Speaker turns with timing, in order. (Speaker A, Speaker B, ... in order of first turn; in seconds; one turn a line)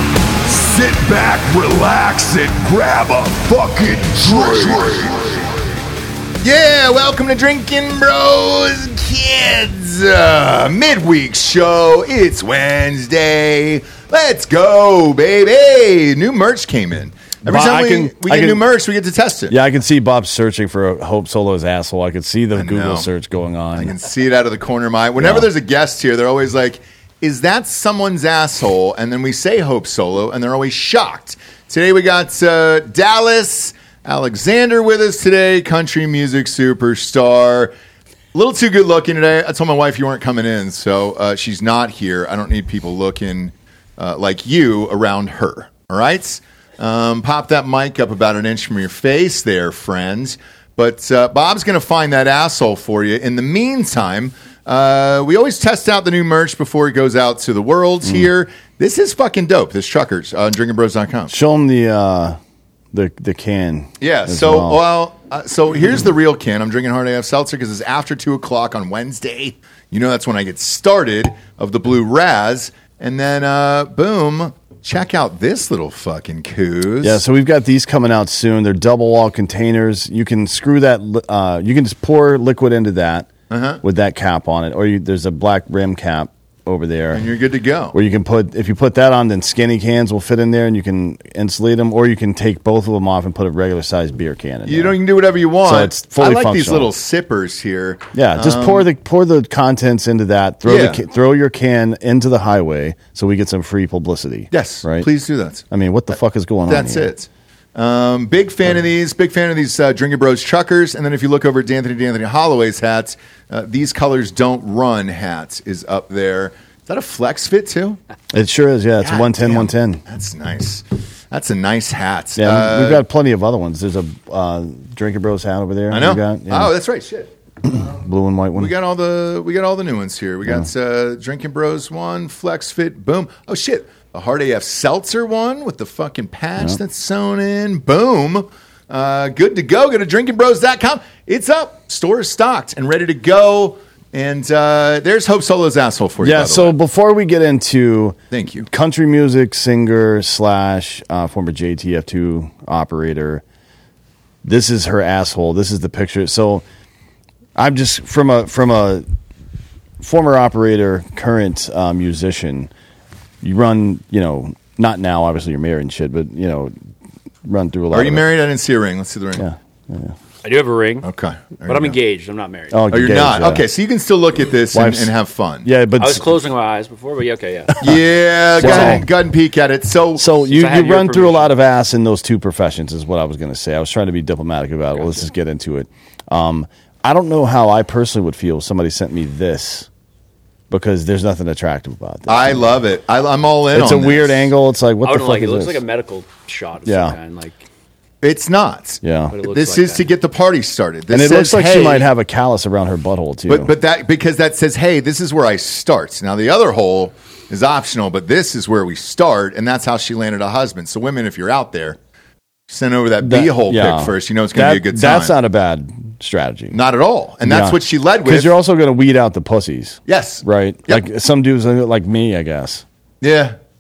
Speaker A: 0.5-5.5
Speaker A: 6.4-19.6
Speaker B: 17.4-18.6
Speaker B: 19.5-23.9
Speaker A: 22.6-23.1
Speaker A: 23.8-37.7
Speaker B: 25.2-25.5
Speaker A: 38.3-61.3
Speaker B: 61.3-62.4
Speaker B: 62.9-64.8
Speaker A: 64.0-77.2
Speaker B: 77.0-83.3
Speaker A: 83.5-83.8
Speaker B: 83.8-87.2
Speaker A: 87.1-88.0
Speaker B: 87.9-95.0
Speaker A: 94.7-98.9
Speaker B: 95.6-96.9
Speaker B: 98.1-105.1
Speaker A: 100.7-101.0
Speaker A: 104.5-105.6
Speaker B: 105.7-107.1
Speaker A: 106.7-118.0
Speaker B: 118.3-120.0
Speaker A: 119.0-123.0
Speaker B: 122.4-126.7
Speaker A: 125.9-127.3
Speaker B: 127.6-128.7
Speaker A: 128.6-146.8
Speaker B: 146.2-153.4
Speaker A: 148.3-148.7
Speaker B: 154.4-156.6
Speaker B: 157.6-159.1
Speaker B: 160.0-162.7
Speaker B: 163.4-166.8
Speaker B: 167.4-168.3
Speaker A: 167.9-169.4
Speaker B: 169.4-170.2
Speaker C: 170.4-171.1
Speaker A: 171.0-172.0
Speaker C: 171.7-172.8
Speaker B: 172.7-173.7
Speaker A: 172.9-175.7
Speaker B: 174.7-175.1
Speaker B: 175.6-176.3
Speaker C: 176.0-177.9
Speaker A: 177.8-180.3
Speaker B: 178.5-179.1
Speaker B: 180.2-189.9
Speaker C: 180.4-181.5
Speaker C: 184.9-185.3
Speaker B: 190.7-192.8
Speaker A: 192.3-194.5
Speaker B: 193.7-195.8
Speaker C: 195.0-197.6
Speaker B: 196.8-197.2
Speaker A: 198.2-202.1
Speaker B: 199.0-199.4
Speaker C: 199.3-200.1
Speaker B: 201.1-203.8
Speaker A: 203.5-212.0
Speaker A: 212.7-215.3
Speaker B: 213.2-216.8
Speaker A: 216.7-218.5
Speaker B: 217.4-222.8
Speaker A: 220.1-221.0
Speaker A: 223.2-223.6